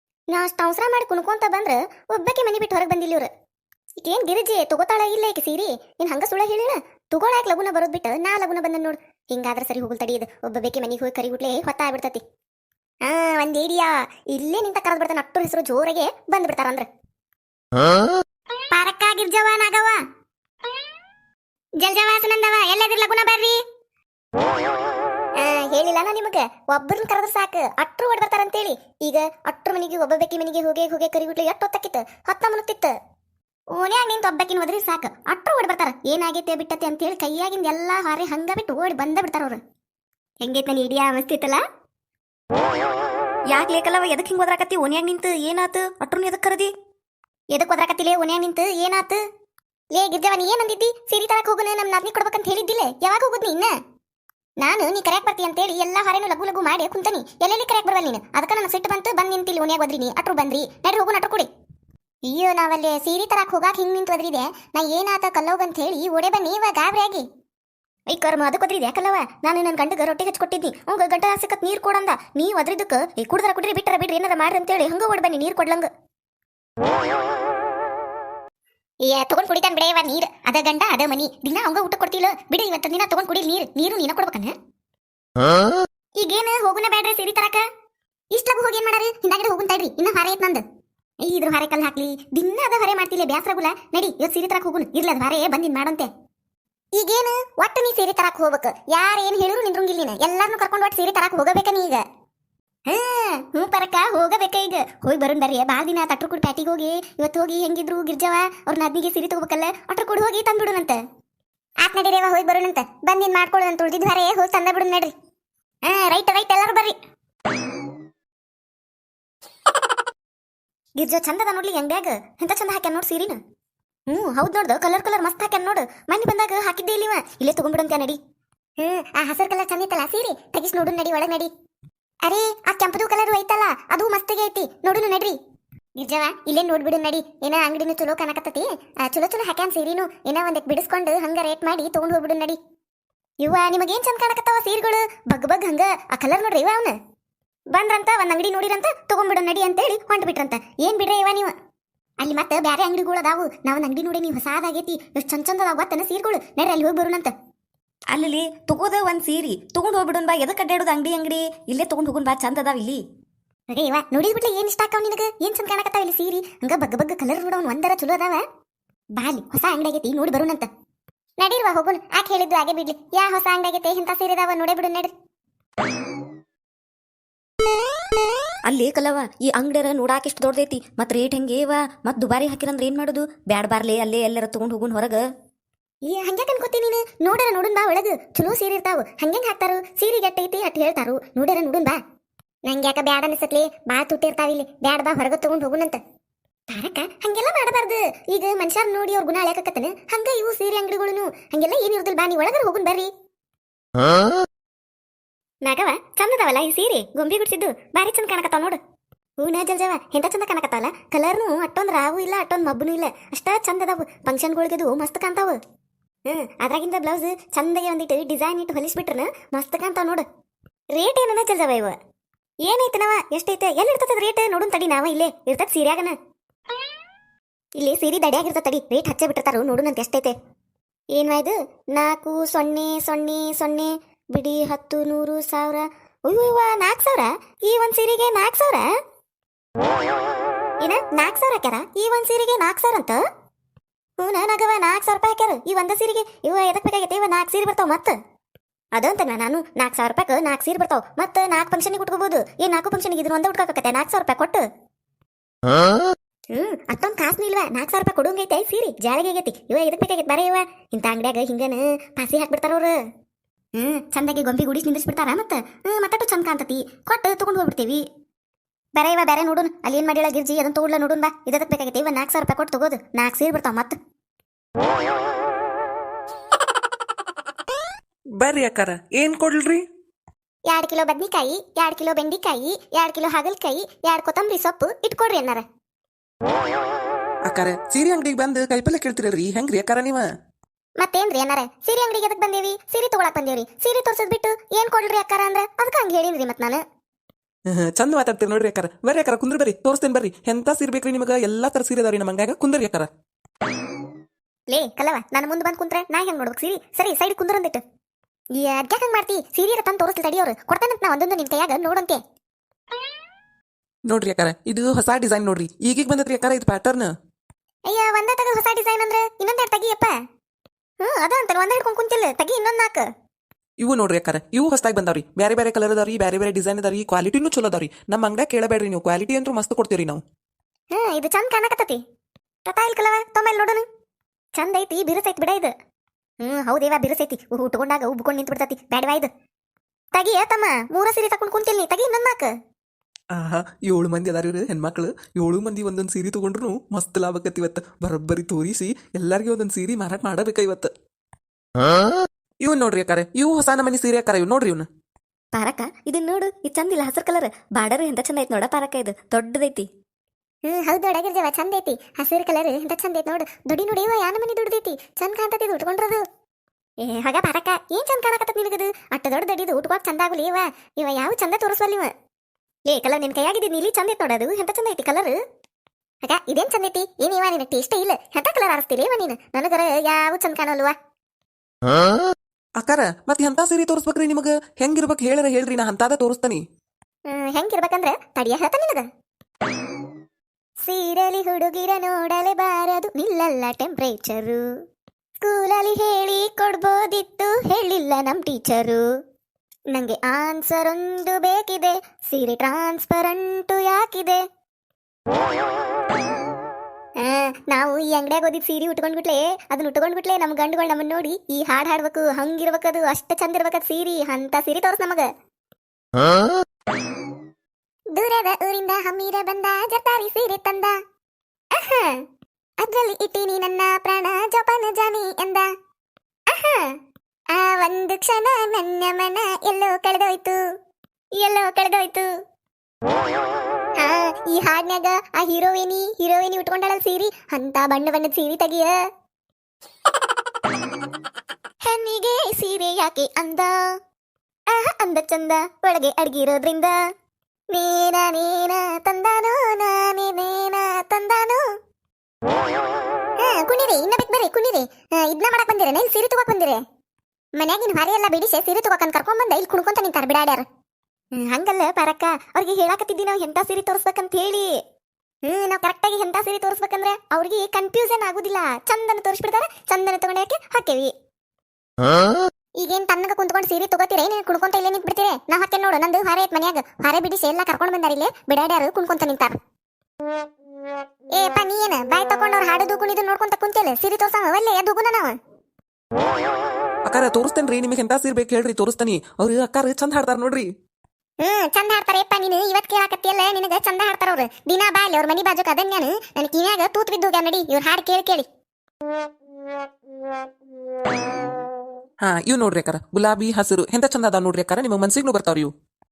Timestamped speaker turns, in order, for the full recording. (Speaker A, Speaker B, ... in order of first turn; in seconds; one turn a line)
Speaker A: 0.3-3.3
Speaker A: 4.0-12.2
Speaker A: 13.0-16.9
Speaker A: 18.7-20.0
Speaker A: 21.8-23.6
Speaker A: 25.4-33.0
Speaker A: 33.7-39.6
Speaker A: 40.4-41.6
Speaker B: 43.5-46.7
Speaker A: 47.5-49.2
Speaker A: 49.9-53.7
Speaker A: 54.6-61.5
Speaker A: 62.3-67.3
Speaker A: 68.1-75.9
Speaker A: 79.0-84.5
Speaker A: 86.2-87.7
Speaker A: 88.3-90.6
Speaker A: 91.2-96.1
Speaker A: 96.9-102.0
Speaker A: 102.9-111.0
Speaker A: 111.8-115.1
Speaker A: 115.8-117.0
Speaker A: 121.0-123.4
Speaker A: 124.1-128.2
Speaker A: 128.8-131.5
Speaker A: 132.2-135.4
Speaker A: 136.0-142.6
Speaker A: 143.4-147.0
Speaker A: 147.7-151.6
Speaker A: 152.2-157.3
Speaker B: 158.1-163.0
Speaker A: 163.7-168.4
Speaker A: 169.2-170.7
Speaker A: 171.4-175.1
Speaker B: 178.7-185.3
Speaker A: 186.0-192.0
Speaker A: 192.7-196.0
Speaker A: 196.7-203.1
Speaker A: 205.6-208.8
Speaker A: 209.4-215.6
Speaker A: 216.3-220.3
Speaker A: 220.9-222.0
Speaker A: 222.6-226.2
Speaker A: 227.8-230.3
Speaker A: 231.1-238.9
Speaker A: 240.8-243.2
Speaker A: 244.2-248.2
Speaker A: 248.9-254.7
Speaker A: 256.5-263.0
Speaker A: 263.8-268.1
Speaker A: 269.0-274.0
Speaker C: 278.4-279.8
Speaker A: 280.7-285.7
Speaker C: 287.5-290.3
Speaker A: 291.0-296.8
Speaker C: 297.7-303.1
Speaker A: 304.7-307.8
Speaker A: 308.5-312.2
Speaker C: 314.1-317.1
Speaker A: 317.9-320.1
Speaker A: 321.0-323.1
Speaker C: 323.8-330.2
Speaker A: 330.9-332.0
Speaker A: 332.7-333.9
Speaker A: 334.6-335.7
Speaker A: 336.4-339.3
Speaker A: 340.1-342.6
Speaker C: 343.3-350.9
Speaker C: 352.6-354.9
Speaker B: 355.5-359.9
Speaker A: 360.6-366.2
Speaker A: 367.0-372.1
Speaker A: 372.9-375.4
Speaker A: 376.2-380.9
Speaker C: 382.8-386.6
Speaker A: 387.3-389.1
Speaker A: 390.8-394.7
Speaker A: 395.4-399.1
Speaker A: 399.9-404.4
Speaker A: 407.2-415.3
Speaker A: 418.1-421.0
Speaker A: 421.7-422.2
Speaker A: 422.8-425.7
Speaker A: 426.5-427.0
Speaker A: 427.5-430.6
Speaker A: 431.3-432.3
Speaker A: 434.0-439.0
Speaker A: 441.8-444.0
Speaker A: 444.7-447.0
Speaker A: 447.7-451.6
Speaker A: 453.4-456.8
Speaker A: 457.6-460.7
Speaker A: 461.4-464.7
Speaker A: 465.4-471.1
Speaker A: 472.8-479.6
Speaker A: 481.3-485.4
Speaker C: 487.1-490.7
Speaker A: 491.4-498.5
Speaker C: 502.2-505.7